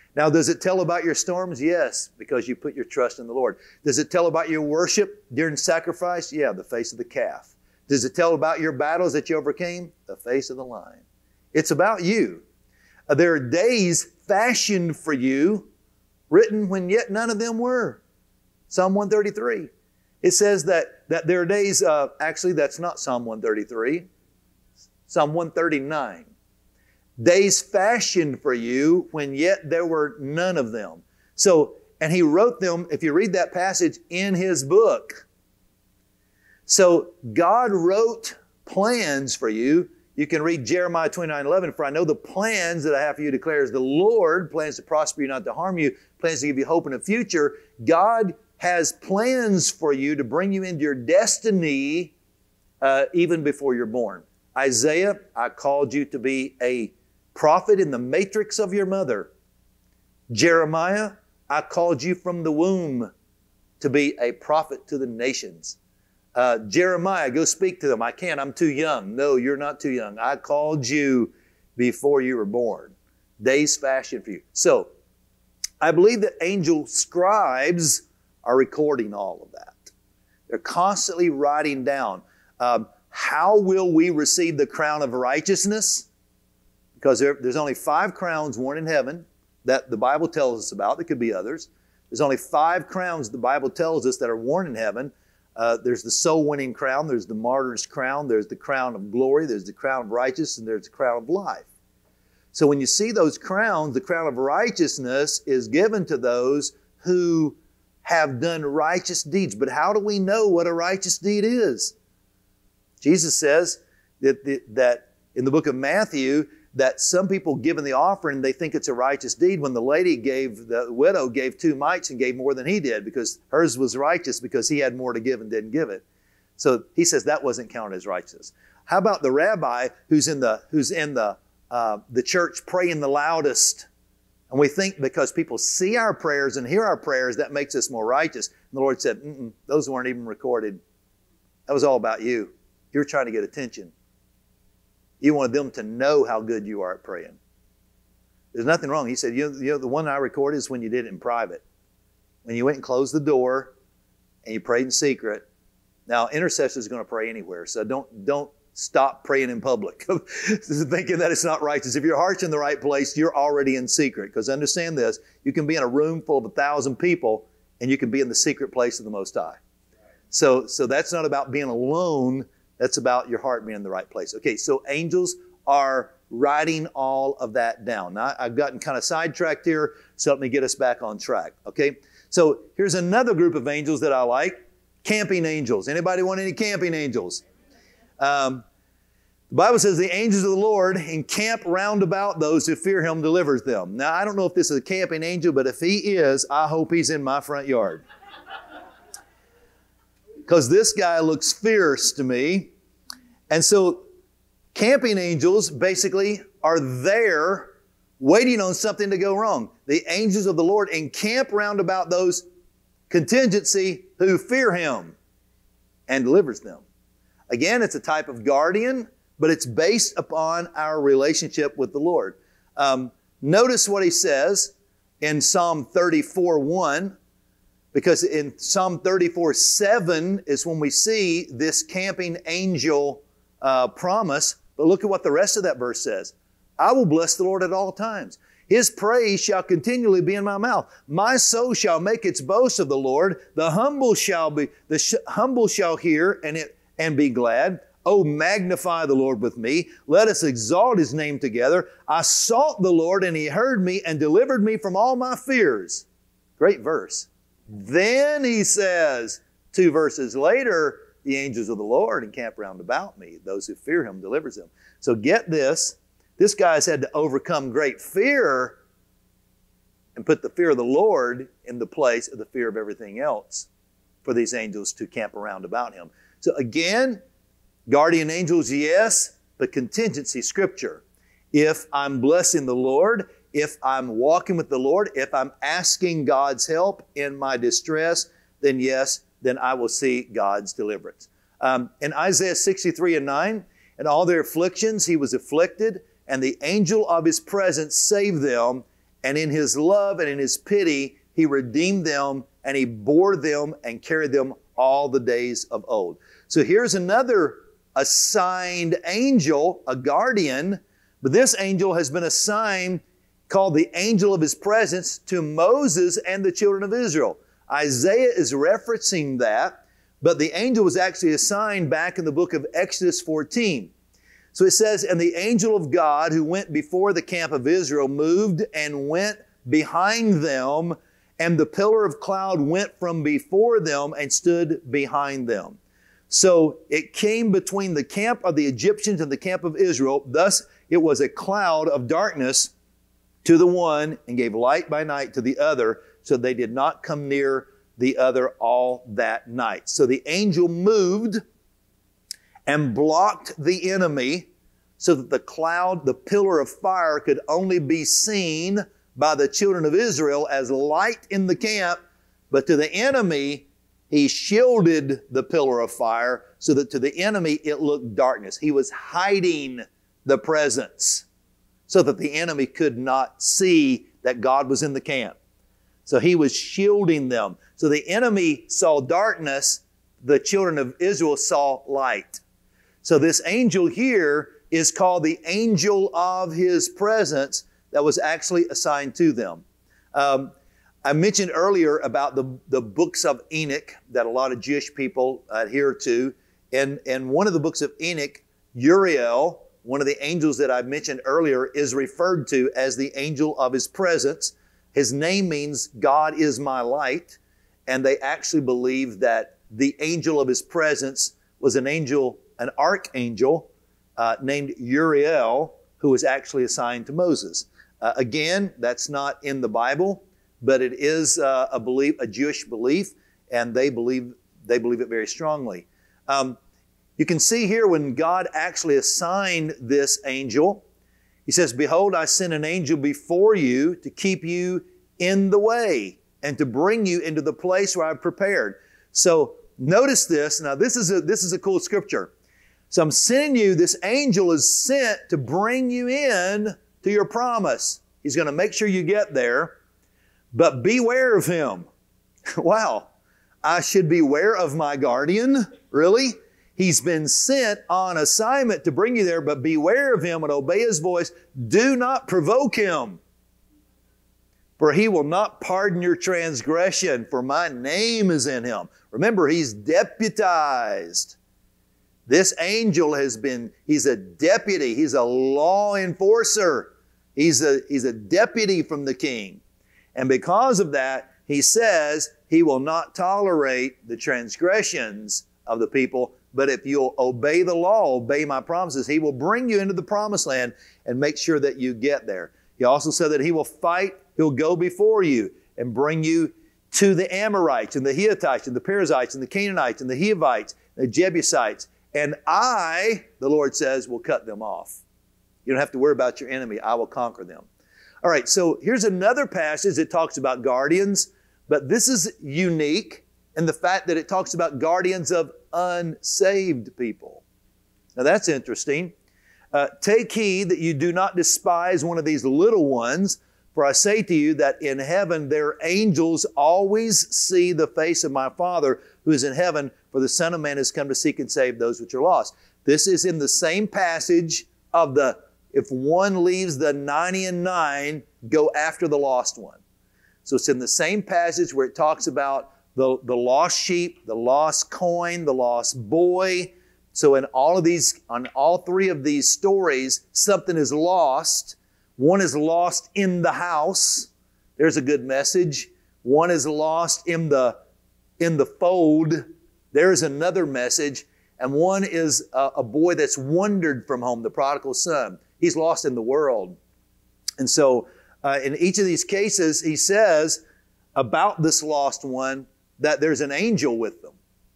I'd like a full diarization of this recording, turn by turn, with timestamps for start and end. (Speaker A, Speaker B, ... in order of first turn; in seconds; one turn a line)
Speaker A: 0.1-11.0
Speaker A: 11.5-12.4
Speaker A: 13.1-15.7
Speaker A: 16.3-18.0
Speaker A: 18.7-19.7
Speaker A: 20.2-24.1
Speaker A: 25.1-26.3
Speaker A: 27.2-35.2
Speaker A: 36.7-52.1
Speaker A: 52.8-59.3
Speaker A: 60.3-63.1
Speaker A: 63.8-65.8
Speaker A: 66.3-74.9
Speaker A: 75.8-79.9
Speaker A: 80.5-86.1
Speaker A: 87.0-101.7
Speaker A: 102.5-111.9
Speaker A: 113.0-126.0
Speaker A: 126.6-133.9
Speaker A: 134.5-140.8
Speaker A: 141.7-143.9
Speaker A: 145.2-147.4
Speaker A: 148.5-151.6
Speaker A: 152.4-153.7
Speaker A: 154.4-155.4
Speaker A: 156.1-169.6
Speaker A: 170.3-187.4
Speaker A: 188.2-188.7
Speaker A: 189.5-198.0
Speaker A: 200.5-202.7
Speaker A: 203.5-204.0
Speaker A: 204.7-212.4
Speaker A: 213.1-215.2
Speaker A: 216.1-216.8
Speaker A: 217.5-227.2
Speaker A: 227.9-256.1
Speaker A: 256.6-268.8
Speaker A: 270.2-273.7
Speaker A: 274.2-277.2
Speaker A: 277.9-323.9
Speaker A: 324.5-335.8
Speaker A: 336.3-342.7
Speaker A: 343.4-351.4
Speaker A: 352.7-354.5
Speaker A: 355.0-371.3
Speaker A: 371.9-375.4
Speaker A: 376.1-382.4
Speaker A: 383.0-389.6
Speaker A: 390.1-390.5
Speaker A: 391.0-426.6
Speaker A: 427.2-430.8
Speaker A: 431.5-442.3
Speaker A: 442.9-449.8
Speaker A: 450.5-451.9
Speaker A: 452.6-453.1
Speaker A: 453.6-463.2
Speaker A: 464.8-471.4
Speaker A: 472.3-479.6
Speaker A: 480.1-505.0
Speaker A: 505.6-507.7
Speaker A: 508.2-517.4
Speaker A: 518.2-519.1
Speaker A: 519.7-539.8
Speaker A: 540.5-557.8
Speaker A: 558.4-566.8
Speaker A: 567.6-570.6
Speaker A: 571.1-574.4